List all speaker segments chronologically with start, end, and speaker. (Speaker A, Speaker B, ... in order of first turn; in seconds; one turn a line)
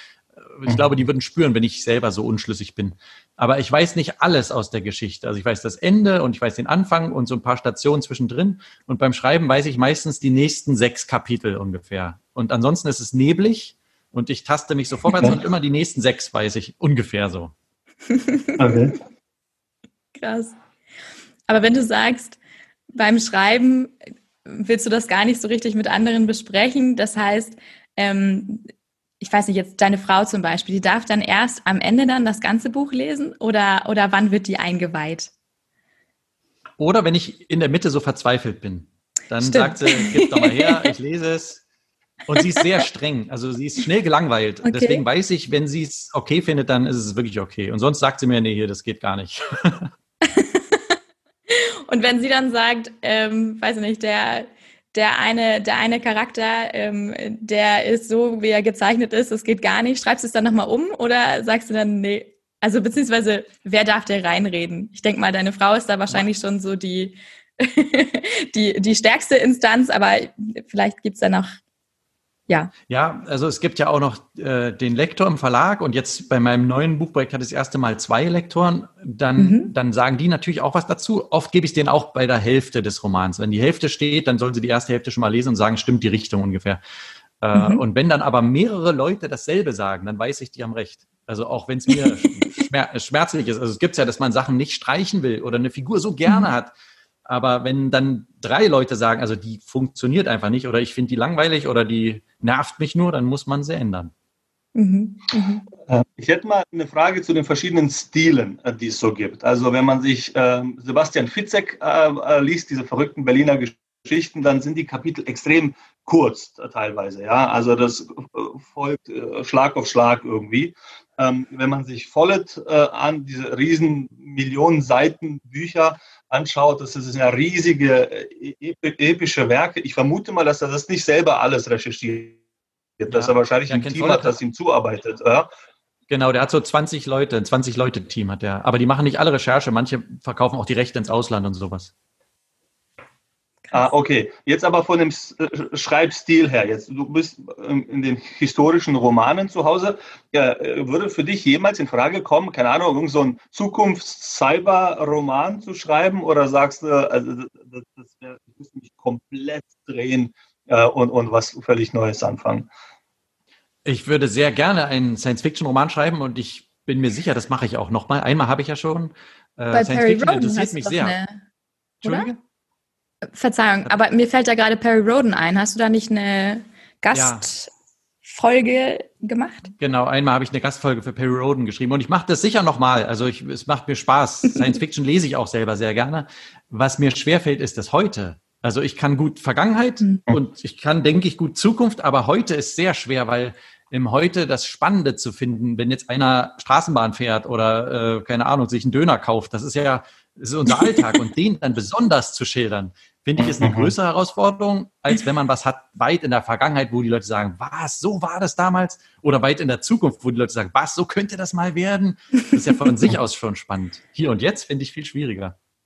Speaker A: 0.6-17.5
Speaker B: 0.7-0.9
Speaker C: 18.1-18.8
Speaker B: 18.6-19.0
Speaker C: 20.2-20.6
Speaker C: 21.5-22.4
Speaker C: 22.9-28.7
Speaker C: 29.2-35.3
Speaker A: 36.8-41.6
Speaker C: 39.4-40.9
Speaker A: 42.3-49.9
Speaker C: 42.4-42.7
Speaker C: 44.6-45.0
Speaker C: 50.2-50.8
Speaker C: 51.5-71.6
Speaker A: 72.9-86.8
Speaker C: 79.4-79.7
Speaker A: 87.4-96.7
Speaker C: 87.5-87.8
Speaker C: 91.9-92.3
Speaker A: 97.3-104.1
Speaker C: 104.8-105.7
Speaker B: 105.9-132.4
Speaker B: 133.0-135.5
Speaker A: 133.1-134.3
Speaker A: 136.1-141.9
Speaker C: 143.7-143.9
Speaker B: 143.7-162.7
Speaker A: 163.8-171.2
Speaker C: 169.7-171.4
Speaker A: 172.0-172.4
Speaker C: 172.0-172.3
Speaker C: 173.3-177.7
Speaker A: 177.1-177.5
Speaker C: 178.2-179.7
Speaker A: 179.8-215.6
Speaker C: 200.8-201.1
Speaker B: 203.4-203.9